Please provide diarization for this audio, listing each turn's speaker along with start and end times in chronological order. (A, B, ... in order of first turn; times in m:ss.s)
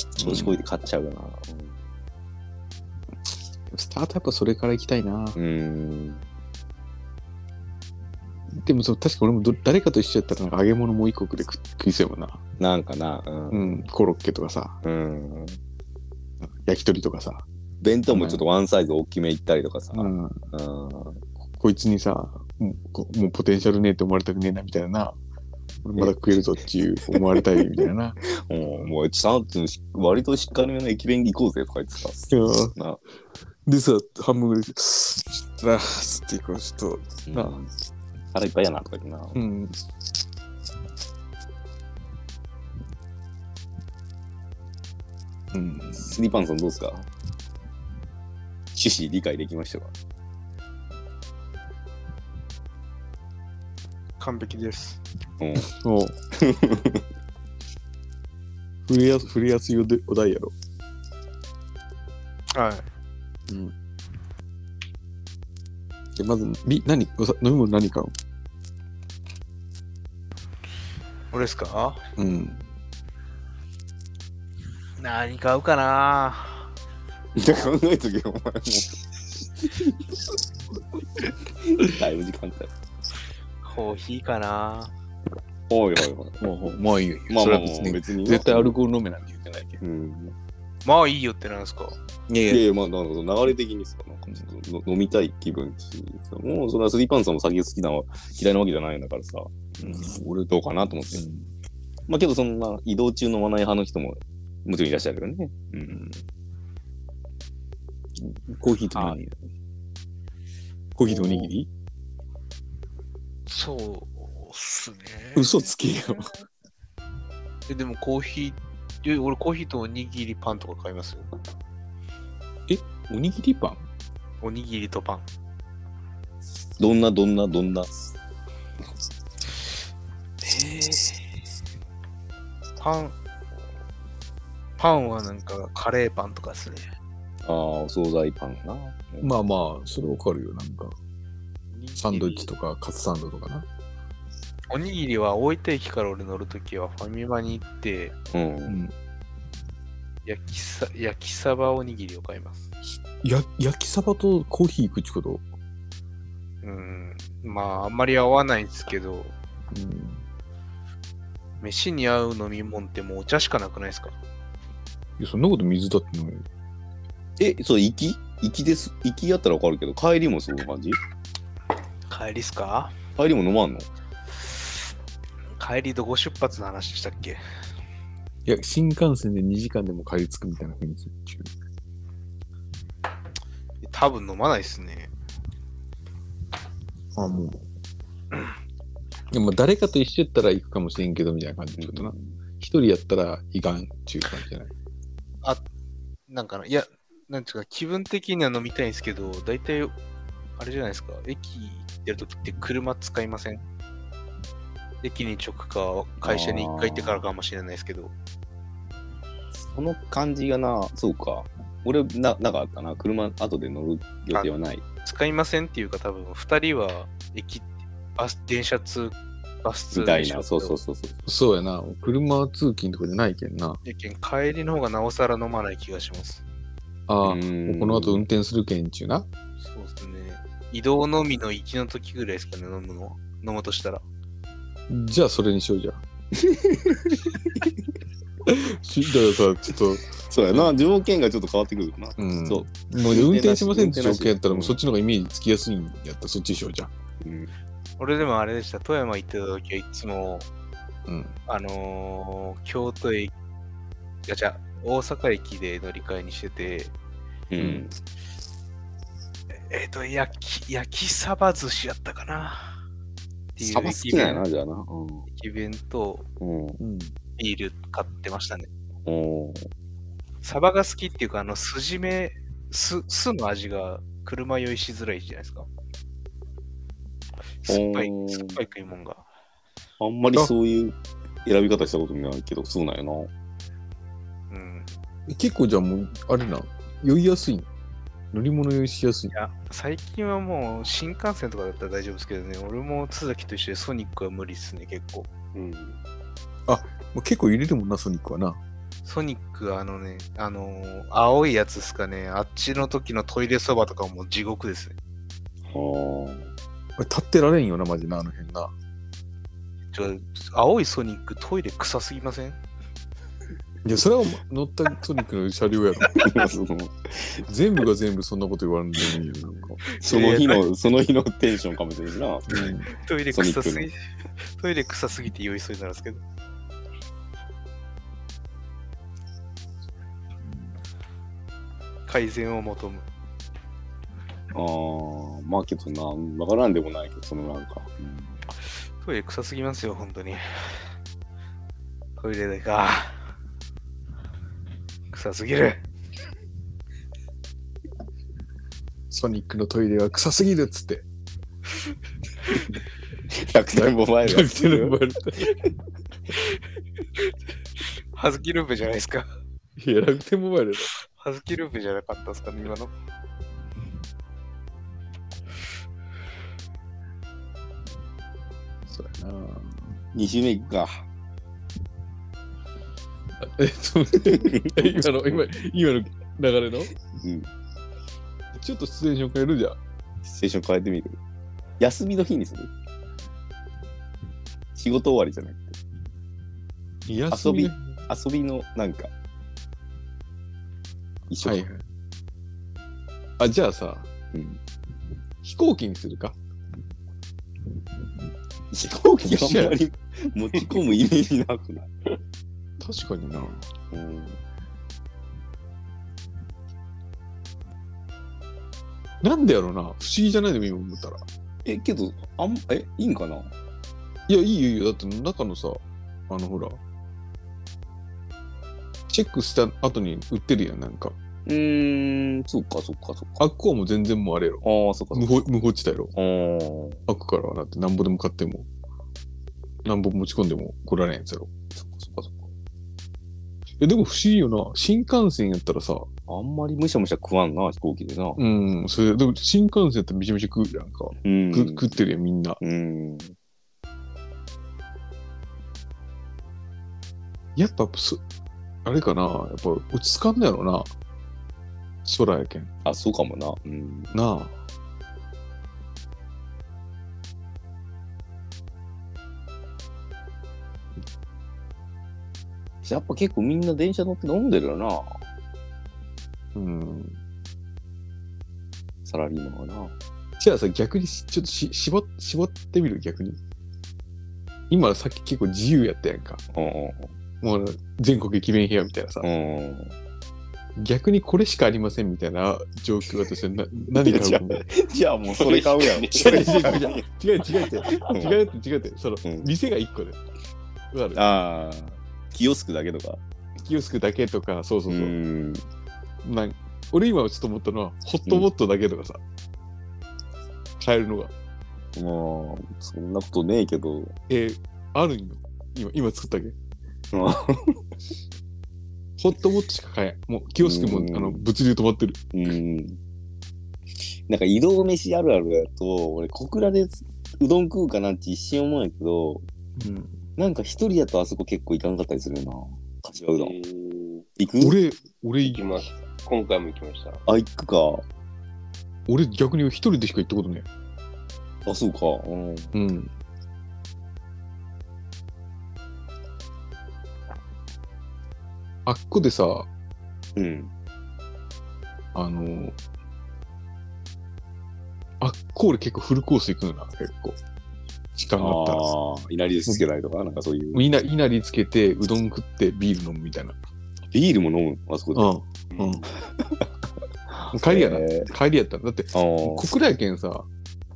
0:00.2-0:01.7 A
0:00.2-0:00.6 B
0:03.7-0:05.4 B
0:05.4-0:06.2 A
0:08.6-0:12.4 B
0:12.6-0:13.7 A
0:13.5-0:14.8 B
0:14.8-0:15.6 A
0:16.4-0:17.4 B
0:17.8-0:21.2 A
0:18.1-0:18.4 B
0:19.9-0:20.4 B
0:21.6-0:25.2 B
0:25.8-0:28.9 B
0:27.1-0:33.0 A
0:32.3-0:32.8 B
0:33.6-0:37.6 B
0:37.2-0:37.7 A
0:38.3-0:39.4 A
0:39.3-0:39.8 B
0:45.5-0:46.1 B
0:45.9-0:47.1 A
0:48.7-0:49.9 A
0:54.2-0:55.0 C
0:55.4-0:55.7 A
0:55.6-0:56.2 B
0:56.4-0:57.0 A
0:58.9-1:00.5 B
1:02.5-1:02.9 C
1:03.5-1:03.7 B
1:06.2-1:08.1 B
1:11.3-1:12.0 C
1:12.2-1:12.6 B
1:15.0-1:16.7 C
1:17.3-1:20.0 A
1:21.6-1:22.7 A
1:23.6-1:24.9 C
1:25.7-1:26.4 A
1:26.4-1:29.8 B
1:27.3-1:28.7 A
1:29.8-1:30.3 A
1:30.8-1:32.0 C
1:32.3-1:32.6 B
1:32.5-1:41.2 A
1:39.8-1:40.5 B
1:42.1-1:46.0 A
1:48.2-1:49.4 B
1:51.0-1:51.7 B
1:51.0-1:51.5 A
1:53.5-1:56.2 C
1:55.3-1:56.3 B
1:57.7-2:01.3 C
2:02.7-2:03.8 B
2:04.4-2:05.2 C
2:06.8-2:07.9 A
2:10.4-2:11.2 C
2:12.8-2:13.1 C
2:14.8-2:16.8 C
2:17.4-2:19.3 A
2:19.2-2:20.9 B
2:21.8-2:22.4 C
2:22.0-2:23.6 B
2:24.7-2:28.1 C
2:28.3-2:28.8 A
2:28.7-2:28.9 B
2:30.2-2:32.6 C
2:33.2-2:35.4 B
2:36.6-2:39.3 C
2:39.7-2:40.2 B
2:41.6-2:44.2 C
2:45.2-2:46.4 B
2:47.4-2:51.0 A
2:52.1-2:52.9 C
2:53.2-2:53.9 A
2:55.6-2:57.4 C
2:58.4-3:01.5 B
3:03.8-3:05.1 C
3:07.2-3:07.6 B
3:09.3-3:14.7 B
3:11.8-3:12.4 A
3:16.3-3:19.9 C
3:20.6-3:23.6 C
3:25.0-3:28.1 C
3:26.2-3:27.3 A
3:29.5-3:34.8 A
3:35.0-3:40.8 C
3:39.9-3:41.2 A
3:41.2-3:43.8 B
3:43.8-3:46.4 C
3:47.1-3:49.2 B
3:47.2-3:48.2 A
3:49.6-3:54.0 C
3:54.9-3:56.0 B
3:56.3-3:57.7 A
3:58.4-4:00.7 B
4:00.3-4:04.8 A
4:02.2-4:06.9 B
4:07.2-4:07.5 A
4:08.0-4:10.5 C
4:11.1-4:11.4 B
4:11.5-4:13.3 C
4:14.2-4:16.9 C
4:17.5-4:17.9 A
4:17.6-4:17.9 B
4:19.6-4:22.8 C
4:23.6-4:24.4 C
4:23.6-4:25.2 A
4:25.3-4:26.3 C
4:26.4-4:26.8 A
4:26.8-4:27.1 B
4:27.4-4:28.7 C
4:29.0-4:29.7 A
4:30.4-4:35.7 C
4:37.6-4:39.2 C
4:37.7-4:38.6 A
4:40.0-4:43.3 A
4:44.5-4:44.9 C
4:45.3-4:47.7 B
4:48.3-4:49.3 B
4:49.3-4:55.3 C
4:55.5-4:56.0 D
4:56.7-4:58.6 B
4:59.0-5:04.9 C
5:05.7-5:06.5 A
5:07.0-5:08.7 B
5:09.9-5:12.6 C
5:13.8-5:16.4 B
5:16.0-5:17.4 A
5:17.4-5:19.8 B
5:19.7-5:22.7 A
5:20.0-5:20.6 C
5:22.5-5:22.9 B
5:22.9-5:26.2 C
5:23.3-5:23.9 A
5:32.1-5:33.0 C
5:34.5-5:38.4 A
5:39.0-5:40.7 C
5:42.2-5:43.2 C
5:45.1-5:45.8 C
5:49.1-5:51.0 B
5:53.3-5:55.6 A
5:53.8-5:55.5 B
5:58.1-5:59.3 C
5:59.8-6:00.9 B
6:01.0-6:02.9 C
6:08.9-6:10.0 B
6:10.1-6:11.0 A
6:13.4-6:16.9 B
6:14.3-6:15.4 A
6:17.2-6:17.5 A
6:18.5-6:19.8 B
6:20.2-6:21.2 A
6:21.8-6:22.7 A
6:24.7-6:25.8 A
6:27.1-6:28.0 B
6:27.3-6:29.1 A
6:31.3-6:31.6 A
6:31.4-6:31.8 B
6:33.4-6:34.1 B
6:34.3-6:34.6 A
6:35.4-6:36.4 B
6:38.7-6:41.9 A
6:39.2-6:39.8 B
6:42.8-6:43.6 B
6:43.9-6:44.4 A
6:49.2-6:51.2 B
6:51.6-6:53.5 A
6:54.3-6:56.8 B
6:59.1-7:01.2 B
7:01.4-7:03.4 A
7:03.4-7:06.1 B
7:04.6-7:05.3 A
7:06.1-7:07.0 A
7:07.1-7:08.7 B
7:09.8-7:11.5 B
7:11.7-7:12.5 A
7:13.8-7:16.1 B
7:16.3-7:18.4 A
7:18.4-7:22.6 B
7:21.2-7:22.0 A
7:22.6-7:23.4 A
7:27.6-7:28.2 B
7:28.8-7:30.9 B
7:32.0-7:32.7 B
7:32.8-7:34.1 A
7:34.1-7:34.5 B
7:42.8-7:45.1 A
7:46.6-7:47.2 B
7:49.0-7:49.9 A
7:50.4-7:53.4 B
7:54.7-7:56.4 B
7:56.5-7:57.1 A
7:57.4-7:59.3 B
7:59.2-7:59.9 A
8:00.8-8:04.6 B
8:03.9-8:07.0 A
8:05.3-8:07.0 D
8:06.1-8:10.2 B
8:07.8-8:08.4 A
8:09.2-8:09.5 A
8:10.9-8:11.2 B
8:11.1-8:13.2 A
8:13.6-8:15.1 B
8:14.9-8:15.6 A
8:16.2-8:19.2 B
8:20.8-8:21.3 B
8:22.0-8:24.1 A
8:24.3-8:26.6 B
8:27.1-8:27.8 A
8:29.2-8:32.2 B
8:30.6-8:31.4 A
8:32.3-8:33.0 A
8:34.3-8:39.4 A
8:39.8-8:40.2 B
8:40.4-8:43.6 A
8:43.4-8:44.3 D
8:44.4-8:44.8 A
8:44.6-8:45.6 B
8:45.4-8:47.2 D
8:47.3-8:48.0 A
8:49.1-8:50.6 B
8:51.6-8:52.7 A
8:52.7-8:53.1 B
8:58.8-8:59.7 B
9:00.4-9:00.7 A
9:02.1-9:02.8 B
9:05.2-9:07.4 B
9:08.2-9:08.9 B
9:08.4-9:10.8 A
9:10.7-9:13.6 B
9:14.1-9:15.3 A
9:15.1-9:16.0 B
9:15.7-9:16.1 D
9:16.4-9:16.6 A
9:17.3-9:18.3 A
9:17.5-9:20.5 B
9:19.1-9:19.6 A